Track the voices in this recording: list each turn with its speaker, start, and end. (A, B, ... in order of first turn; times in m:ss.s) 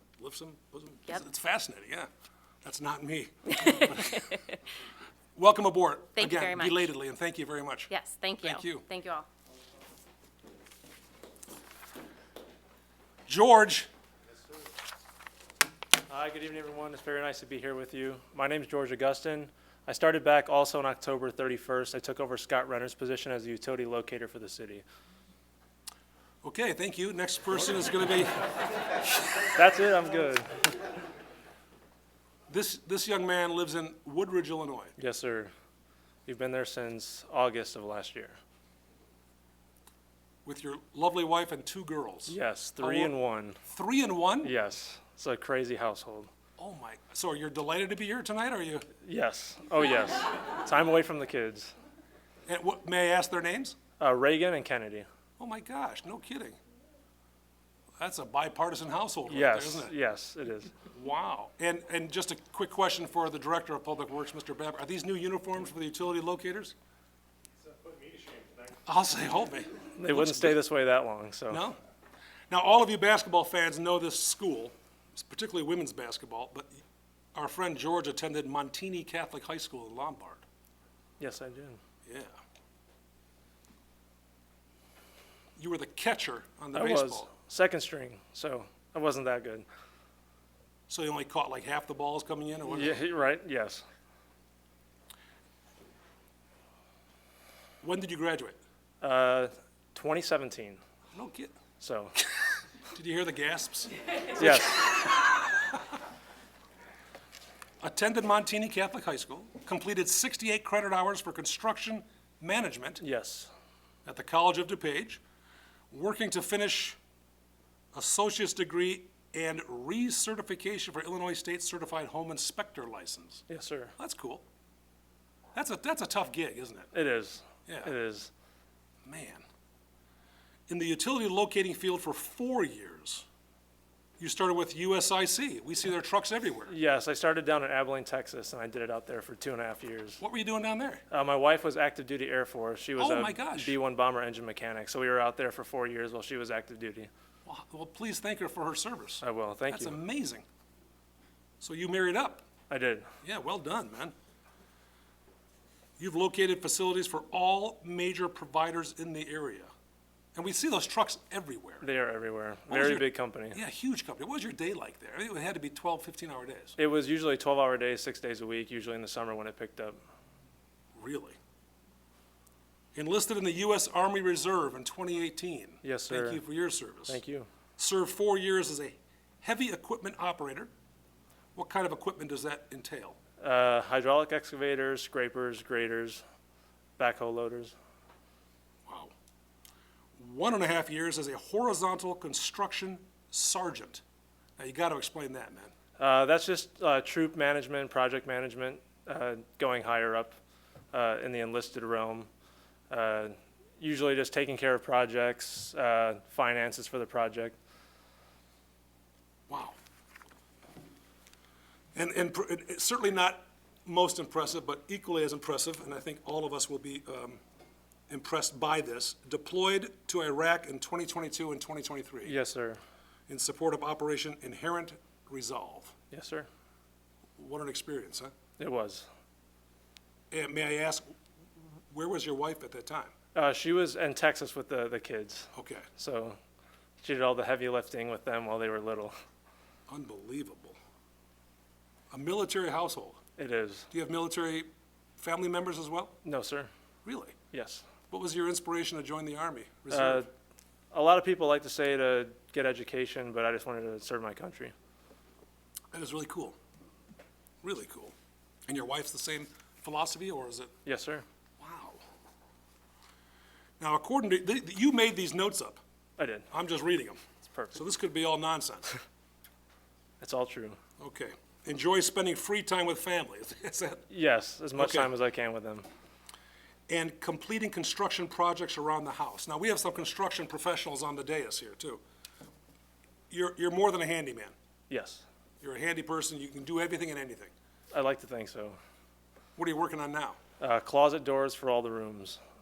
0:00.2-0:02.1 A
0:02.6-0:04.5 A
0:03.8-0:04.4 B
0:05.4-0:08.8 A
0:06.2-0:06.9 B
0:07.9-0:09.3 B
0:13.3-0:13.9 A
0:16.1-0:24.8 C
0:26.4-0:28.5 A
0:29.3-0:30.9 C
0:32.5-0:34.9 A
0:35.0-0:35.5 C
0:36.2-0:38.4 C
0:40.4-0:44.5 A
0:42.3-0:43.6 C
0:44.4-0:46.3 C
0:46.6-0:48.9 A
0:49.0-0:51.7 C
0:52.5-0:53.8 A
0:54.0-0:55.1 C
0:55.4-0:56.6 A
0:58.0-0:59.9 A
0:59.3-1:00.7 C
1:00.9-1:06.7 A
1:08.8-1:10.6 A
1:10.0-1:11.6 C
1:11.5-1:11.8 A
1:12.5-1:16.8 A
1:17.3-1:20.4 A
1:21.2-1:21.8 C
1:22.0-1:22.4 A
1:25.6-1:27.3 A
1:26.7-1:29.7 C
1:30.9-1:33.0 A
1:32.7-1:33.8 C
1:37.8-1:38.6 A
1:39.0-1:40.8 C
1:41.1-1:41.5 A
1:41.8-1:42.1 C
1:42.9-1:45.8 A
1:44.3-1:45.1 C
1:47.8-1:53.0 A
1:53.0-1:53.5 C
1:54.0-1:55.2 A
1:55.9-1:57.0 A
1:57.9-2:03.4 A
2:03.5-2:03.9 C
2:04.0-2:04.4 A
2:05.5-2:06.9 A
2:06.9-2:08.3 C
2:07.7-2:07.9 A
2:09.0-2:09.4 A
2:10.7-2:13.2 A
2:14.2-2:16.7 A
2:16.7-2:20.2 C
2:20.2-2:21.0 A
2:21.1-2:27.1 C
2:23.0-2:23.8 A
2:27.4-2:30.4 A
2:29.2-2:30.0 C
2:31.6-2:32.4 A
2:32.7-2:33.1 C
2:33.2-2:34.1 A
2:36.0-2:39.7 A
2:40.3-2:41.9 A
2:41.8-2:43.6 C
2:42.7-2:46.8 A
2:46.8-2:50.0 C
2:51.0-2:51.4 A
2:52.9-2:57.2 A
2:55.8-2:56.4 C
2:57.1-2:57.5 C
2:57.8-3:00.7 A
3:01.5-3:03.2 A
3:03.4-3:06.2 C
3:07.0-3:07.7 C
3:08.8-3:09.1 A
3:10.2-3:14.0 A
3:14.6-3:15.7 A
3:16.0-3:20.4 C
3:20.9-3:22.3 C
3:22.9-3:27.6 C
3:29.5-3:29.8 A
3:31.9-3:37.4 A
3:38.1-3:42.3 A
3:42.2-3:42.8 C
3:43.3-3:45.9 A
3:46.1-3:46.5 C
3:47.4-3:48.3 A
3:48.6-3:49.1 C
3:50.3-3:51.2 A
3:51.8-3:53.1 A
3:53.3-3:56.4 C
3:55.5-3:55.9 A
3:57.0-3:59.1 C
3:59.9-4:00.8 A
4:02.1-4:03.2 A
4:03.4-4:03.9 C
4:03.9-4:06.2 A
4:06.2-4:06.7 C
4:07.0-4:07.4 A
4:07.5-4:07.8 C
4:08.1-4:10.3 A
4:09.9-4:10.3 C
4:10.9-4:14.7 C
4:15.9-4:16.6 A
4:17.6-4:18.1 A
4:18.7-4:20.7 A
4:20.8-4:21.2 C
4:21.6-4:22.0 A
4:23.8-4:25.8 A
4:26.2-4:26.5 C
4:26.5-4:27.2 A
4:27.5-4:27.8 C
4:27.7-4:29.0 A
4:30.2-4:30.8 C
4:31.0-4:34.0 A
4:34.1-4:35.8 C
4:34.8-4:35.1 A
4:36.9-4:42.0 A
4:43.3-4:44.5 A
4:44.9-4:45.2 C
4:45.6-4:47.5 A
4:47.9-4:48.8 C
4:49.6-4:50.4 A
4:50.6-4:52.4 C